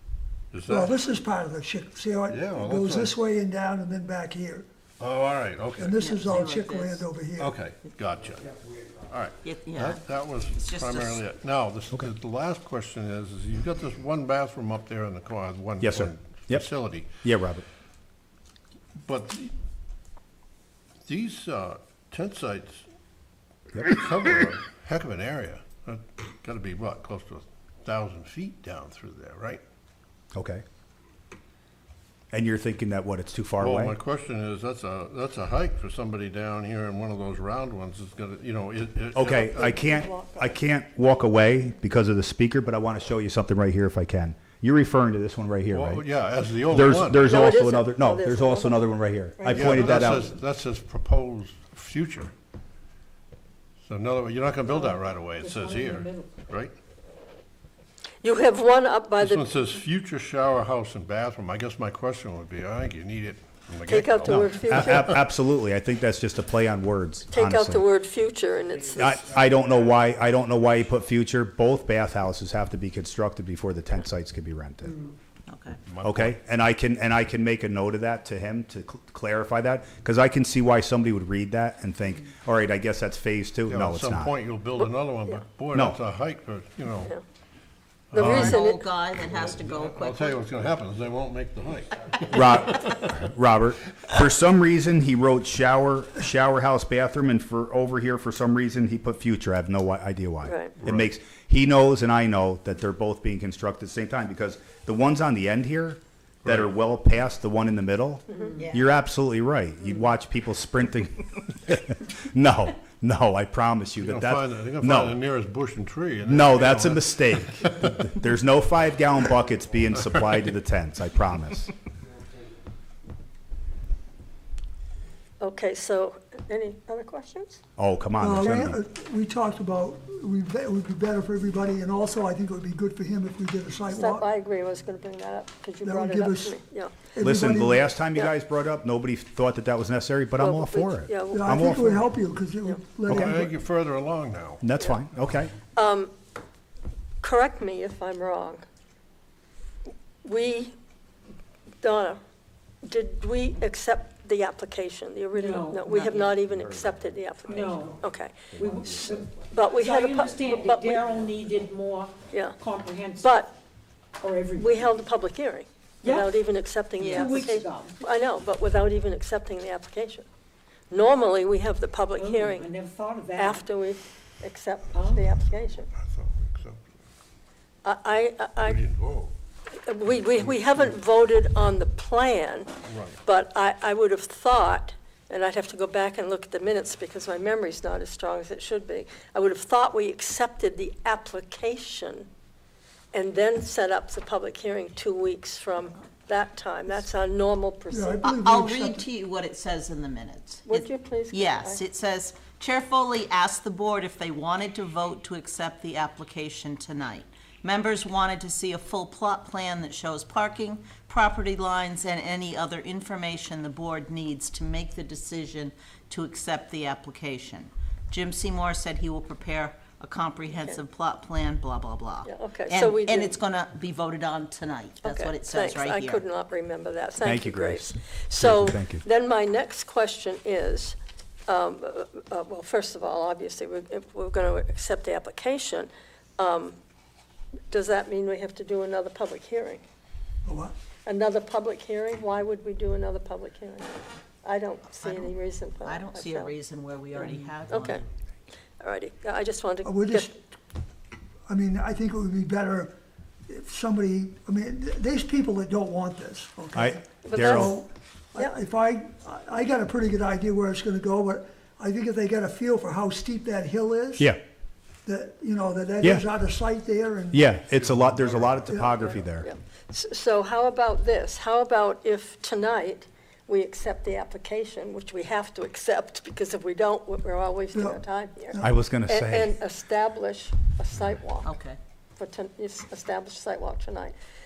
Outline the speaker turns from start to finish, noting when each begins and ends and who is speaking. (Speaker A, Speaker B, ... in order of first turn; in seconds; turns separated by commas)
Speaker A: 0.5-0.9, Speaker B: 0.7-4.7, Speaker A: 2.3-3.2, Speaker A: 5.0-6.0, Speaker B: 5.8-7.5, Speaker C: 6.0-7.1, Speaker A: 7.4-17.1, Speaker C: 9.4-10.0, Speaker C: 10.5-11.2, Speaker D: 15.8-17.6, Speaker A: 19.0-19.5, Speaker A: 21.1-22.9, Speaker A: 23.8-29.6, Speaker D: 30.3-30.6, Speaker D: 32.3-34.0, Speaker A: 33.6-39.5, Speaker D: 39.1-46.0, Speaker E: 39.2-40.6, Speaker A: 45.7-47.3, Speaker D: 46.7-50.3, Speaker E: 47.1-50.1, Speaker A: 49.5-52.3, Speaker A: 53.9-56.7, Speaker F: 54.8-56.3, Speaker E: 58.2-59.5, Speaker A: 59.2-65.1, Speaker E: 63.9-65.1, Speaker D: 64.3-67.9, Speaker E: 67.3-69.3, Speaker D: 68.9-75.0, Speaker C: 75.5-75.8, Speaker A: 75.9-76.3, Speaker D: 76.0-84.4, Speaker A: 83.7-87.1, Speaker E: 84.8-85.4, Speaker D: 85.7-86.0, Speaker A: 88.1-88.7, Speaker E: 88.1-88.8, Speaker C: 88.3-90.4, Speaker A: 89.2-93.1, Speaker D: 92.3-115.2, Speaker E: 100.5-100.7, Speaker A: 100.8-101.1, Speaker A: 106.4-106.8, Speaker E: 108.3-108.6, Speaker C: 108.6-108.9, Speaker A: 114.0-117.9, Speaker D: 116.3-121.7, Speaker E: 125.4-127.6, Speaker D: 127.8-128.8, Speaker B: 128.2-134.3, Speaker E: 133.9-137.1, Speaker B: 135.8-136.6, Speaker B: 137.1-137.9, Speaker D: 137.2-142.0, Speaker E: 140.4-141.9, Speaker B: 141.3-143.6, Speaker E: 142.6-142.9, Speaker D: 143.1-143.4, Speaker A: 143.1-144.6, Speaker D: 144.6-145.5, Speaker E: 145.7-146.1, Speaker E: 147.2-148.6, Speaker E: 150.2-150.7, Speaker E: 151.8-152.2, Speaker E: 152.8-158.6, Speaker F: 155.3-156.0, Speaker C: 155.9-156.4, Speaker D: 156.5-157.1, Speaker F: 157.4-158.0, Speaker F: 158.6-163.4, Speaker D: 158.6-159.2, Speaker E: 159.3-161.2, Speaker E: 162.3-162.6, Speaker E: 163.1-163.6, Speaker F: 164.2-165.0, Speaker E: 164.6-170.3, Speaker F: 166.0-166.4, Speaker C: 167.0-167.5, Speaker F: 167.2-168.0, Speaker E: 170.9-172.7, Speaker F: 172.2-173.7, Speaker E: 173.4-175.9, Speaker F: 174.9-175.3, Speaker A: 175.9-176.9, Speaker E: 177.8-178.8, Speaker A: 178.6-179.3, Speaker E: 179.8-182.7, Speaker A: 180.4-180.9, Speaker A: 182.8-183.2, Speaker E: 183.2-192.3, Speaker E: 193.1-198.3, Speaker B: 197.9-199.1, Speaker C: 198.3-226.2, Speaker E: 200.7-201.8, Speaker E: 220.5-220.8, Speaker E: 222.2-223.4, Speaker E: 225.0-231.0, Speaker D: 227.2-229.0, Speaker E: 231.5-236.8, Speaker E: 237.7-239.8, Speaker B: 240.4-240.8, Speaker E: 241.1-246.5, Speaker C: 245.0-248.1, Speaker E: 247.7-248.0, Speaker E: 248.8-250.3, Speaker B: 249.8-250.3, Speaker B: 251.5-252.9, Speaker B: 253.5-264.3, Speaker D: 256.8-257.8, Speaker E: 257.2-257.8, Speaker B: 265.1-267.5, Speaker D: 267.3-269.5, Speaker A: 267.7-268.7, Speaker B: 268.7-269.0, Speaker E: 269.0-281.5, Speaker B: 277.7-278.7, Speaker D: 278.6-279.6, Speaker C: 281.4-281.8, Speaker E: 282.2-284.1